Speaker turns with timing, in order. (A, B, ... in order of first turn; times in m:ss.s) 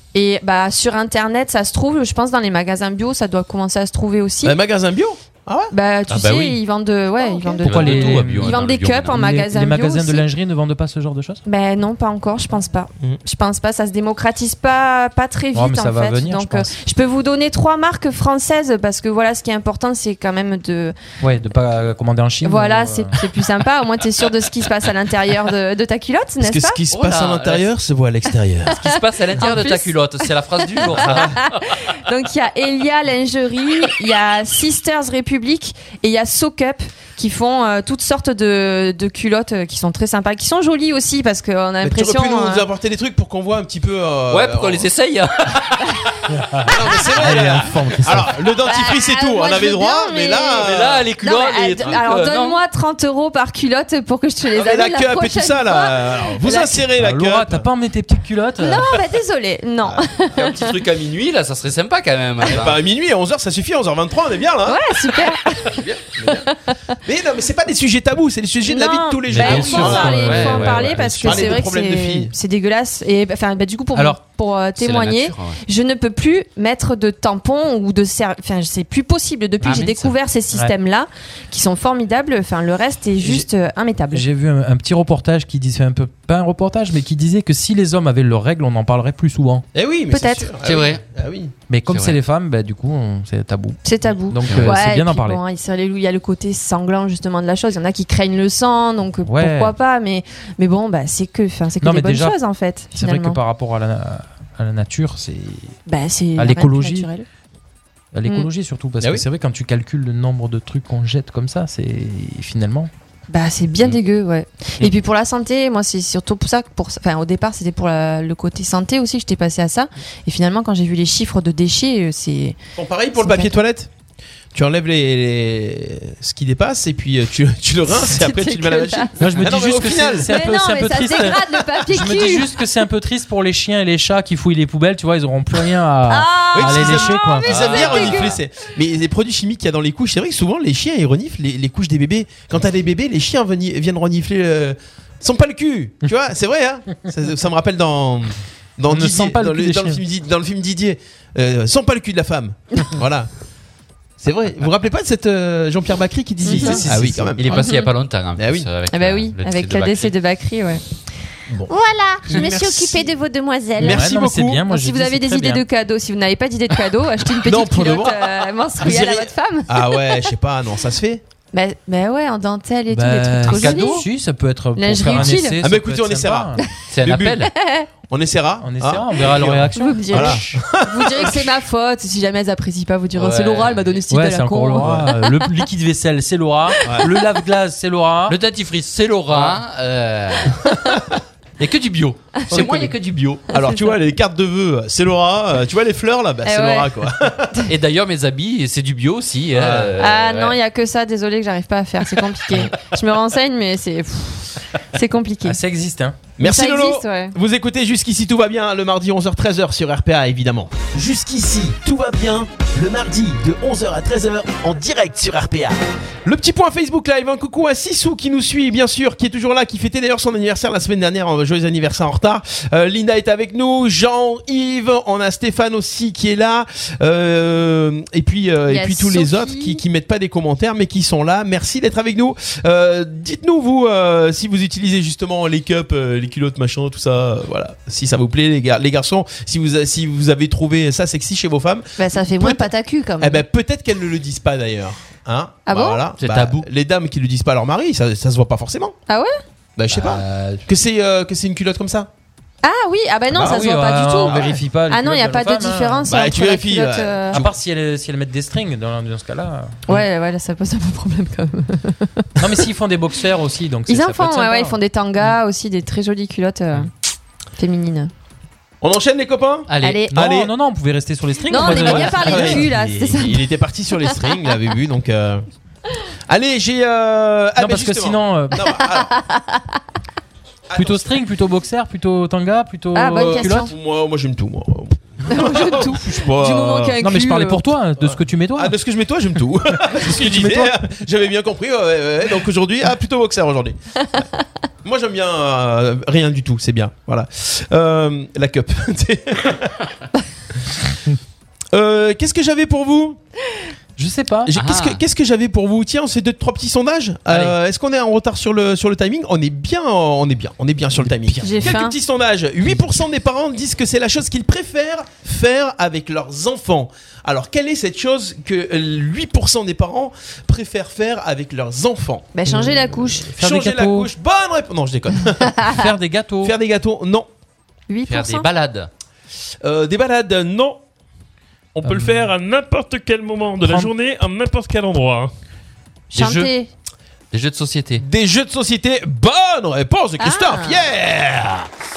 0:00.1-0:04.6 A
0:04.4-0:05.7 B
0:05.7-0:10.2 A
0:06.1-0:06.6 C
0:07.2-0:07.6 B
0:07.6-0:11.4 D
0:07.6-0:09.2 C
0:11.4-0:20.9 A
0:15.5-0:16.7 D
0:21.2-0:23.2 D
0:22.4-0:26.8 A
0:26.4-0:28.8 B
0:26.9-0:27.7 C
0:28.7-0:31.6 C
0:29.4-0:29.9 A
0:30.8-0:42.6 A
0:41.8-0:44.9 B
0:44.3-0:46.3 C
0:46.4-0:48.4 D
0:46.6-0:51.1 B
0:48.6-0:56.8 A
0:50.6-0:52.6 C
0:54.5-0:57.7 B
0:57.0-0:58.9 D
0:58.6-1:00.7 A
0:59.8-1:00.2 B
1:00.4-1:02.8 C
1:02.4-1:06.5 B
1:04.6-1:06.8 A
1:07.0-1:12.3 B
1:08.7-1:24.2 A
1:09.3-1:11.6 D
1:09.4-1:11.0 C
1:14.8-1:15.6 C
1:19.6-1:20.1 C
1:24.1-1:29.6 D
1:29.7-1:31.5 B
1:30.1-1:30.5 A
1:30.6-1:31.0 C
1:31.7-1:35.4 D
1:31.9-1:32.2 C
1:33.8-1:43.4 A
1:39.2-1:39.7 D
1:41.8-1:42.4 D
1:42.9-1:45.8 D
1:45.8-1:47.2 A
1:46.4-1:47.1 D
1:48.1-1:52.9 D
1:53.3-2:02.6 A
2:02.8-2:03.9 B
2:03.2-2:03.5 A
2:04.5-2:10.3 B
2:07.9-2:09.2 A
2:09.2-2:17.5 D
2:10.2-2:12.6 A
2:16.1-2:18.4 A
2:16.5-2:33.3 B
2:17.5-2:18.4 C
2:28.9-2:30.0 D
2:34.2-2:37.7 B
2:36.4-2:36.8 A
2:36.5-2:37.4 D
2:36.9-2:40.1 C
2:37.5-2:37.9 A
2:38.4-2:38.7 B
2:38.9-2:40.8 A
2:41.7-2:44.0 A
2:42.2-2:43.1 B
2:43.8-2:45.6 D
2:43.8-2:44.6 B
2:44.7-2:50.3 A
2:47.4-2:51.2 B
2:51.5-2:54.0 A
2:52.9-2:56.6 D
2:53.5-2:54.0 C
2:54.8-2:55.6 A
2:55.2-2:57.5 B
2:56.9-2:57.5 C
2:57.6-2:57.9 A
2:58.1-3:01.5 B
2:58.6-3:00.6 D
2:59.7-3:05.4 A
3:03.1-3:04.0 C
3:04.1-3:08.4 D
3:04.8-3:05.1 B
3:08.3-3:10.6 C
3:09.3-3:09.6 B
3:10.5-3:11.1 B
3:11.6-3:13.5 C
3:12.5-3:17.6 B
3:13.5-3:13.8 A
3:16.4-3:17.7 A
3:17.7-3:20.6 C
3:19.5-3:20.0 B
3:20.0-3:25.6 A
3:25.4-3:26.2 D
3:26.4-3:30.9 B
3:26.4-3:27.3 A
3:30.9-3:35.8 E
3:36.2-4:02.6 B
3:48.7-3:49.8 A
4:02.0-4:03.4 A
4:03.2-4:09.0 B
4:05.6-4:06.0 A
4:06.2-4:06.6 C
4:09.1-4:09.3 A
4:09.8-4:12.1 B
4:09.9-4:10.6 C
4:12.6-4:17.4 A
4:13.3-4:16.1 D
4:14.3-4:14.6 B
4:16.1-4:17.5 B
4:17.3-4:19.8 D
4:19.9-4:22.6 A
4:22.4-4:25.4 D
4:23.9-4:26.9 A
4:27.6-4:28.1 A
4:28.8-4:30.5 B
4:29.7-4:30.0 C
4:29.8-4:30.1 A
4:30.1-4:32.7 D
4:31.5-4:33.4 A
4:31.6-4:35.4 B
4:36.3-4:39.1 B
4:37.6-4:38.6 D
4:38.6-4:39.6 A
4:40.7-4:41.2 B
4:40.7-4:43.7 D
4:42.9-4:43.7 A
4:43.1-4:47.0 B
4:45.3-4:47.6 A
4:47.0-4:48.8 D
4:48.0-4:54.2 B
4:49.8-4:50.8 D
4:54.8-4:59.8 B
5:01.7-5:03.2 B
5:04.0-5:04.5 D
5:04.4-5:25.8 B
5:04.5-5:05.0 C
5:07.3-5:07.6 C
5:11.0-5:11.8 D
5:11.4-5:12.0 A
5:22.3-5:23.3 A
5:23.4-5:24.1 D
5:25.6-5:26.5 D
5:26.4-5:27.3 B
5:27.9-5:28.5 A
5:28.1-5:28.9 C
5:29.6-5:30.8 B
5:31.8-5:35.3 F
5:31.8-5:32.3 D
5:33.6-5:33.9 D
5:36.1-5:36.7 A
5:36.2-5:36.5 C
5:37.3-5:38.0 C
5:38.0-5:41.7 B
5:40.2-5:40.8 A